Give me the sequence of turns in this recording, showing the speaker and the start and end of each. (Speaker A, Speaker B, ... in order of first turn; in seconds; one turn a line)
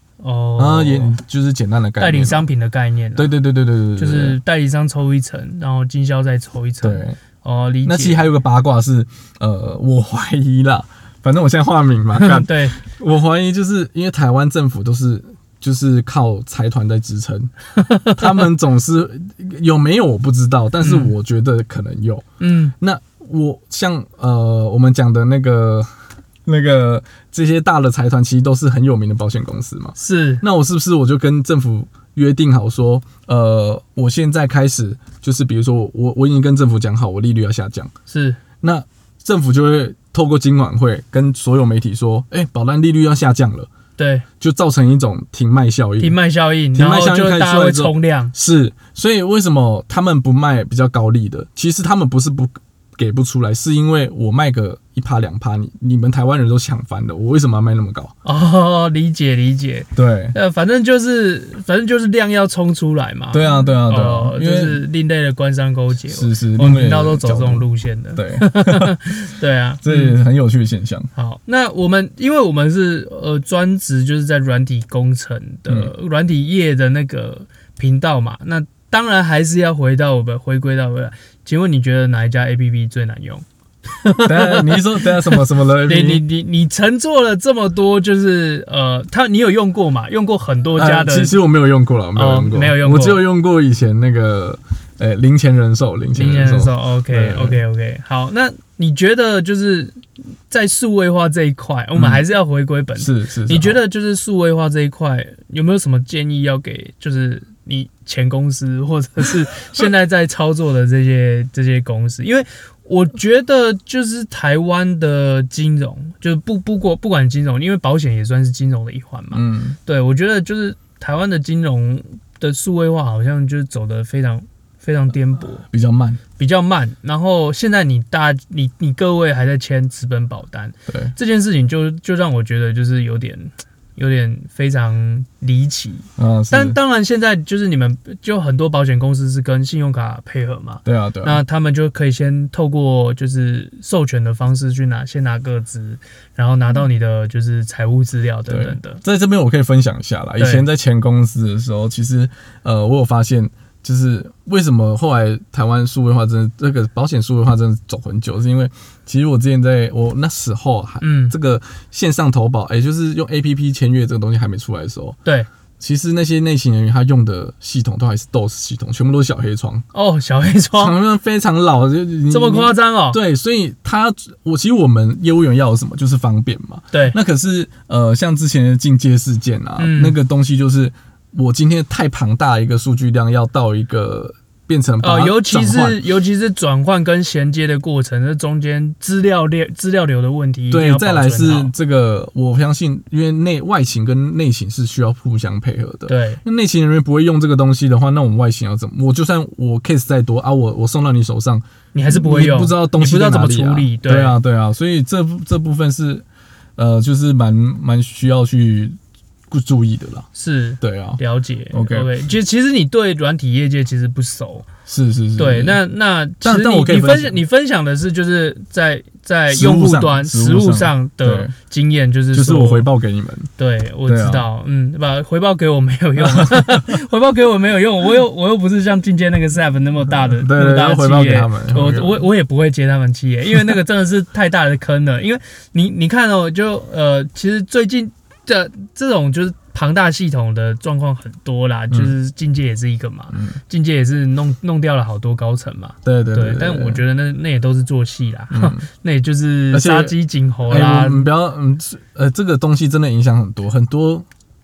Speaker A: 0.2-1.2
Speaker B: 0.6-2.5
Speaker A: 2.0-3.4
Speaker B: 3.1-4.4
Speaker A: 4.0-8.2
Speaker B: 6.8-7.2
Speaker B: 7.8-17.5
Speaker A: 12.2-12.8
Speaker A: 17.8-18.3
Speaker B: 18.1-22.2
Speaker A: 20.8-21.1
Speaker A: 22.4-22.7
Speaker B: 22.8-25.9
Speaker B: 26.4-37.9
Speaker A: 30.0-30.4
Speaker A: 38.1-38.4
Speaker B: 38.6-43.7
Speaker A: 44.0-44.2
Speaker B: 44.4-46.1
Speaker A: 46.0-48.3
Speaker B: 46.7-58.1
Speaker A: 58.2-70.2
Speaker B: 59.9-60.4
Speaker B: 63.3-64.8
Speaker B: 66.1-69.0
Speaker B: 69.8-71.1
Speaker A: 71.1-91.4
Speaker B: 84.2-86.2
Speaker B: 90.8-97.6
Speaker A: 92.1-93.2
Speaker A: 96.1-125.6
Speaker B: 102.0-102.2
Speaker B: 103.0-103.8
Speaker B: 119.3-119.8
Speaker B: 125.7-126.2
Speaker A: 126.4-149.0
Speaker B: 130.9-131.1
Speaker B: 136.2-136.8
Speaker B: 140.8-141.4
Speaker B: 148.5-165.2
Speaker A: 150.4-150.7
Speaker A: 161.0-161.3
Speaker B: 165.8-169.8
Speaker A: 169.9-171.0
Speaker B: 170.8-186.0
Speaker A: 172.3-173.2
Speaker A: 176.9-177.2
Speaker A: 179.8-180.2
Speaker A: 185.0-191.7
Speaker B: 190.7-206.2
Speaker A: 196.1-196.4
Speaker A: 201.9-204.4
Speaker B: 206.8-208.9
Speaker B: 209.5-210.3
Speaker A: 210.3-214.7
Speaker B: 210.8-211.2
Speaker B: 211.7-212.1
Speaker B: 214.8-215.8
Speaker A: 215.4-222.9
Speaker B: 216.4-217.4
Speaker B: 219.5-221.5
Speaker B: 222.3-223.5
Speaker A: 223.6-251.3
Speaker B: 224.1-224.5
Speaker B: 226.2-226.8
Speaker B: 230.1-232.2
Speaker B: 241.9-242.2
Speaker B: 243.3-243.6
Speaker B: 246.0-247.0
Speaker B: 248.5-248.8
Speaker B: 249.7-250.1
Speaker B: 250.7-254.2